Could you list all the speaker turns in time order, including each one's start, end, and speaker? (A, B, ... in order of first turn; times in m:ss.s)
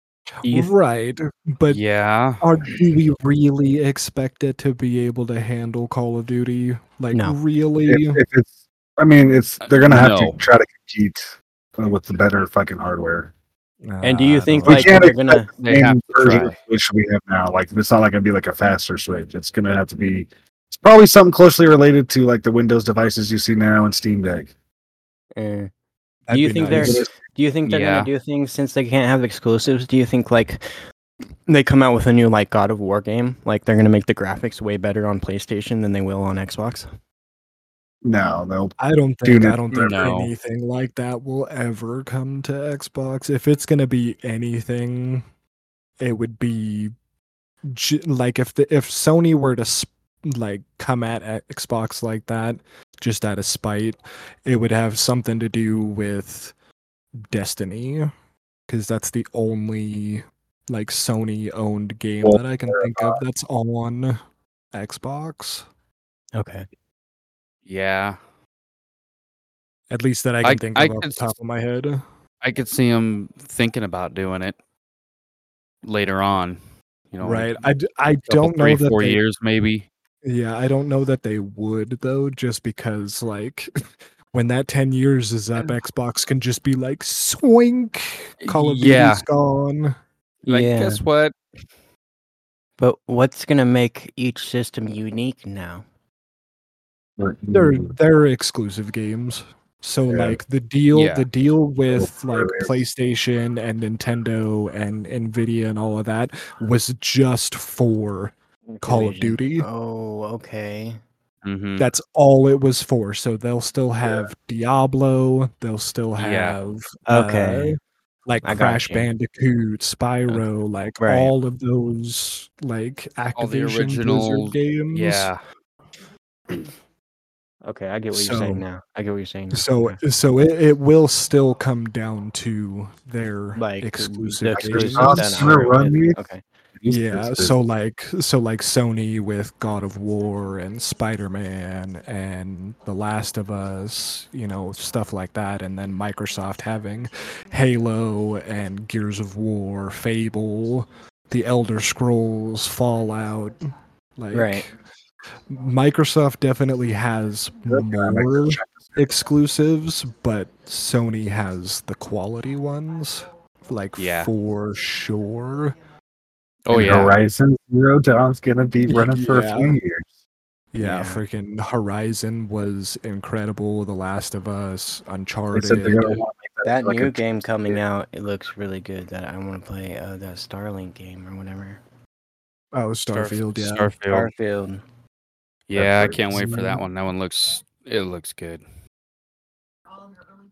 0:00.4-0:01.8 A
0:01.7-0:02.4 B
0:02.4-0:08.2 A
0:07.8-0:13.3 C
0:09.6-0:10.4 B
0:13.9-0:15.0 A
0:14.0-0:15.5 D
0:14.6-0:24.5 C
0:15.6-0:16.6 B
0:25.4-0:25.7 D
0:26.3-0:27.0 A
0:26.3-0:30.7 D
0:26.7-0:27.1 C
0:27.7-0:28.1 B
0:31.5-0:36.9 D
0:38.0-0:40.0 C
0:38.8-0:45.2 A
0:39.7-0:40.3 B
0:46.0-0:46.9 A
0:47.7-0:56.5 A
0:57.2-0:58.1 A
0:58.7-1:04.2 A
1:02.2-1:03.2 C
1:04.7-1:05.7 A
1:06.4-1:06.7 D
1:07.7-1:08.2 B
1:09.9-1:12.0 A
1:10.4-1:11.3 B
1:12.4-1:14.6 B
1:15.8-1:16.6 B
1:17.1-1:17.6 B
1:17.2-1:19.2 A
1:18.3-1:19.9 B
1:20.2-1:23.7 A
1:24.3-1:30.0 A
1:28.4-1:29.2 B
1:30.5-1:31.0 D
1:30.5-1:31.3 B
1:32.8-1:35.8 D
1:37.2-1:37.9 C
1:37.5-1:49.7 A
1:40.1-1:40.4 C
1:40.9-1:41.3 B
1:41.9-1:42.7 C
1:48.7-1:51.0 D
1:51.4-1:51.9 B
1:51.8-2:05.3 A
1:56.2-1:56.6 B
1:57.1-1:57.8 D
1:58.4-1:59.1 D
2:01.0-2:01.3 D
2:03.4-2:05.4 B
2:07.7-2:10.0 D
2:08.1-2:08.6 A
2:09.5-2:15.6 A
2:13.6-2:16.4 D
2:14.5-2:16.2 C
2:16.8-2:17.5 C
2:16.9-2:34.7 A
2:34.3-2:34.6 D
2:35.5-2:45.8 A
2:37.7-2:39.0 C
2:44.0-2:44.3 B
2:46.7-2:47.2 B
2:46.7-2:50.1 C
2:48.9-2:49.8 A
2:50.7-2:56.2 A
2:50.8-2:51.2 D
2:55.5-2:57.8 C
2:56.6-3:01.8 D
3:02.7-3:03.9 A
3:03.1-3:04.3 B
3:04.1-3:04.8 D
3:05.7-3:08.6 B
3:05.7-3:06.2 C
3:06.3-3:06.8 A